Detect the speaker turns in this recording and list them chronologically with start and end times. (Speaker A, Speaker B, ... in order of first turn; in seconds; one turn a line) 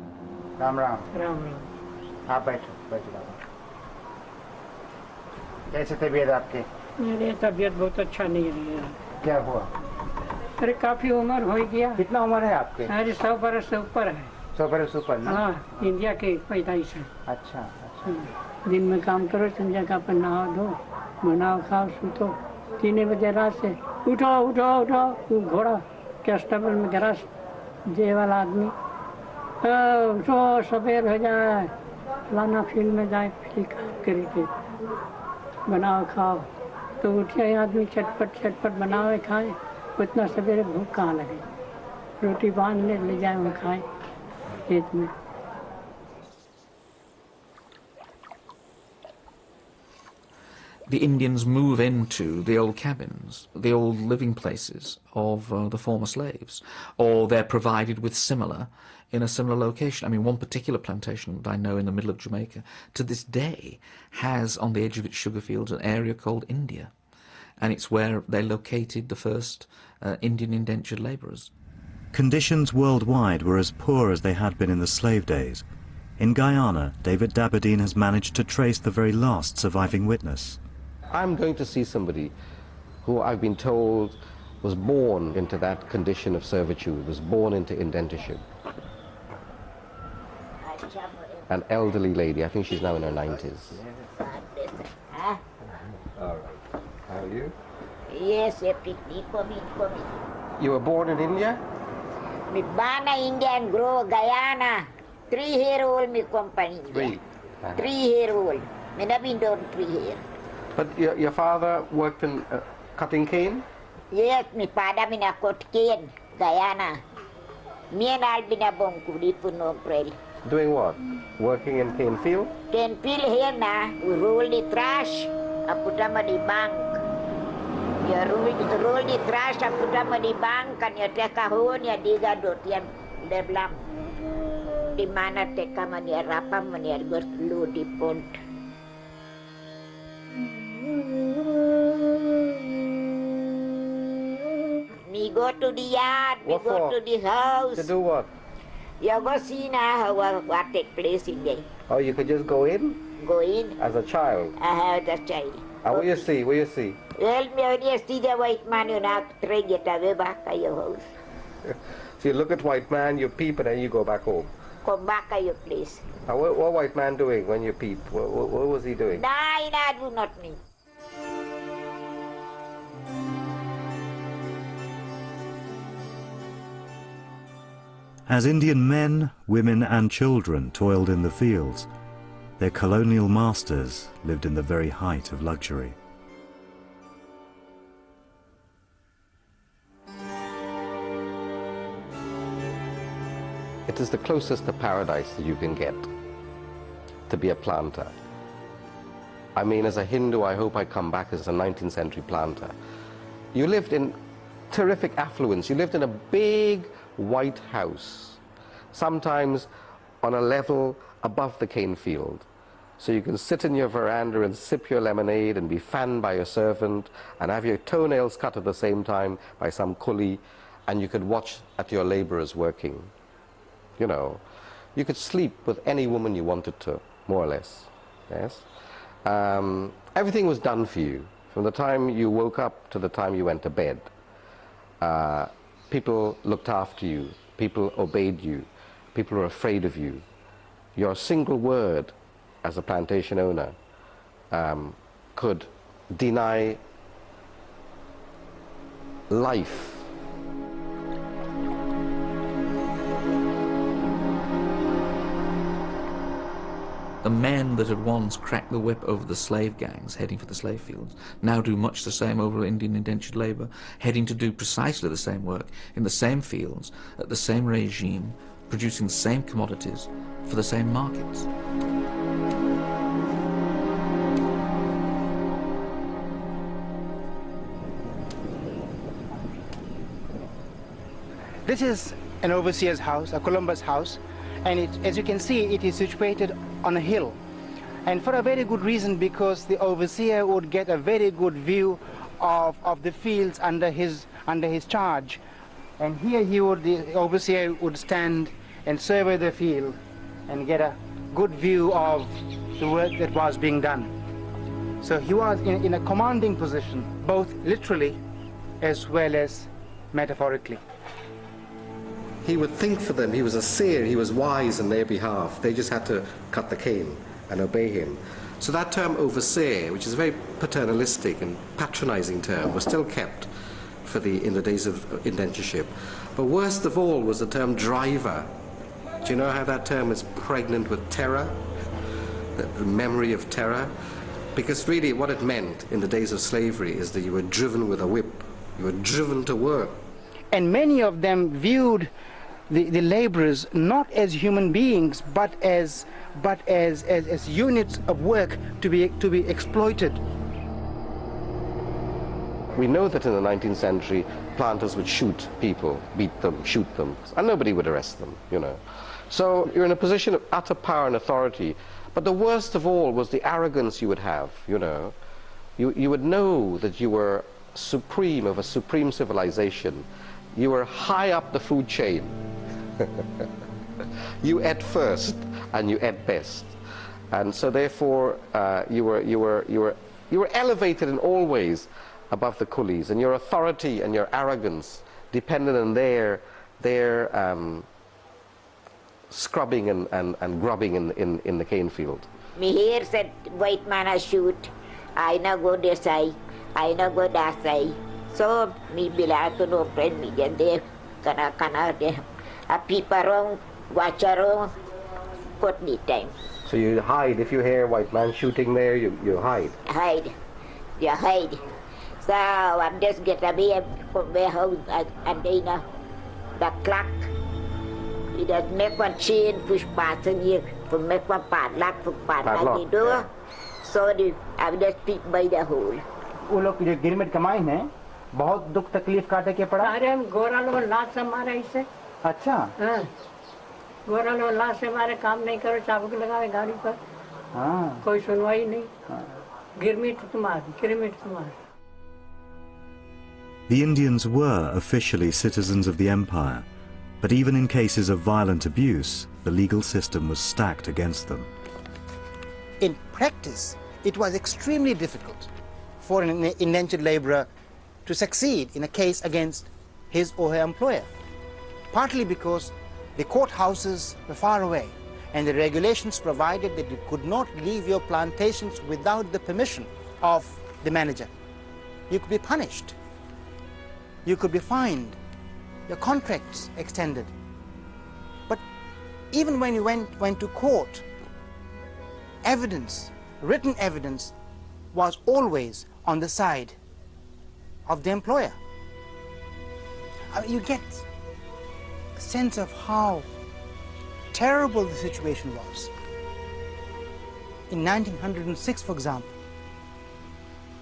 Speaker A: 0.6-1.1
Speaker B: 1.1-1.6
Speaker A: 2.3-3.4
Speaker A: 5.7-6.7
Speaker B: 7.0-9.0
Speaker A: 9.2-9.7
Speaker B: 10.6-12.0
Speaker A: 12.0-12.9
Speaker B: 12.9-14.3
Speaker A: 14.6-15.4
Speaker B: 15.2-17.1
Speaker A: 17.3-18.3
Speaker B: 18.1-27.3
Speaker B: 27.9-28.7
Speaker B: 29.6-31.7
Speaker B: 32.3-34.5
Speaker B: 35.7-36.5
Speaker B: 37.0-41.4
Speaker B: 42.2-43.9
Speaker B: 44.7-45.1
Speaker C: 50.9-66.9
Speaker C: 67.6-71.5
Speaker D: 72.1-75.6
Speaker D: 76.2-80.6
Speaker E: 81.1-82.3
Speaker E: 83.0-88.4
Speaker F: 90.6-91.5
Speaker E: 91.5-93.8
Speaker F: 94.1-95.4
Speaker E: 96.2-96.6
Speaker E: 97.1-97.5
Speaker F: 98.1-100.2
Speaker E: 100.6-101.6
Speaker F: 102.5-107.2
Speaker E: 106.9-107.9
Speaker F: 107.8-110.2
Speaker E: 110.8-113.7
Speaker F: 114.1-117.0
Speaker F: 117.9-120.1
Speaker E: 120.5-122.5
Speaker F: 122.7-127.0
Speaker F: 128.0-133.8
Speaker F: 135.0-138.4
Speaker F: 145.1-147.9
Speaker E: 146.4-147.0
Speaker E: 147.8-148.3
Speaker F: 149.0-151.7
Speaker E: 151.9-153.0
Speaker F: 153.2-153.8
Speaker E: 153.8-154.5
Speaker F: 154.6-156.1
Speaker E: 155.8-157.0
Speaker F: 157.2-161.1
Speaker E: 161.7-164.5
Speaker F: 164.8-166.1
Speaker E: 166.3-169.2
Speaker F: 169.1-170.6
Speaker D: 178.3-181.9
Speaker D: 182.6-186.0
Speaker E: 193.9-196.1
Speaker E: 197.3-198.1
Speaker E: 199.6-202.7
Speaker E: 203.5-204.2
Speaker E: 204.7-208.4
Speaker E: 208.9-209.7
Speaker E: 210.2-212.5
Speaker E: 213.0-223.1
Speaker E: 224.0-224.4
Speaker E: 224.9-228.7
Speaker E: 229.2-234.1
Speaker E: 235.0-240.2
Speaker E: 241.0-243.8
Speaker E: 244.5-246.8
Speaker E: 249.3-250.1
Speaker C: 257.2-271.5
Speaker A: 281.6-287.4
Speaker A: 288.1-295.4
Speaker A: 296.0-304.1
Speaker A: 305.0-308.2
Speaker A: 308.8-310.8
Speaker E: 312.4-323.5
Speaker E: 324.0-328.5
Speaker E: 329.2-331.6
Speaker E: 332.6-333.9
Speaker E: 334.6-340.0
Speaker A: 340.5-342.1
Speaker A: 342.7-350.2
Speaker E: 352.7-365.1
Speaker E: 365.8-372.4
Speaker E: 374.4-376.8
Speaker E: 377.3-387.9
Speaker E: 389.3-392.3
Speaker F: 392.6-404.7
Speaker F: 405.6-406.3
Speaker E: 406.6-409.8
Speaker F: 409.9-410.3
Speaker F: 411.0-411.6
Speaker F: 412.2-415.8
Speaker F: 416.6-417.3
Speaker F: 418.4-423.3
Speaker E: 422.4-423.2
Speaker F: 423.8-426.1
Speaker A: 426.5-429.9
Speaker B: 429.8-431.9
Speaker A: 432.2-432.7
Speaker B: 432.8-433.1
Speaker B: 434.1-437.0
Speaker A: 437.5-438.0
Speaker B: 438.0-438.9
Speaker B: 439.8-441.5
Speaker D: 443.7-446.6
Speaker D: 447.2-451.5
Speaker A: 452.8-455.5
Speaker A: 456.0-457.5
Speaker A: 458.1-461.1
Speaker A: 461.9-471.3
Speaker A: 472.1-472.9
Speaker A: 474.2-475.2
Speaker A: 475.9-477.3
Speaker A: 479.3-481.1
Speaker A: 482.4-484.3
Speaker A: 484.9-486.8
Speaker A: 487.9-488.6
Speaker A: 490.3-491.1
Speaker A: 492.1-493.3
Speaker A: 494.3-495.9
Speaker A: 497.7-499.3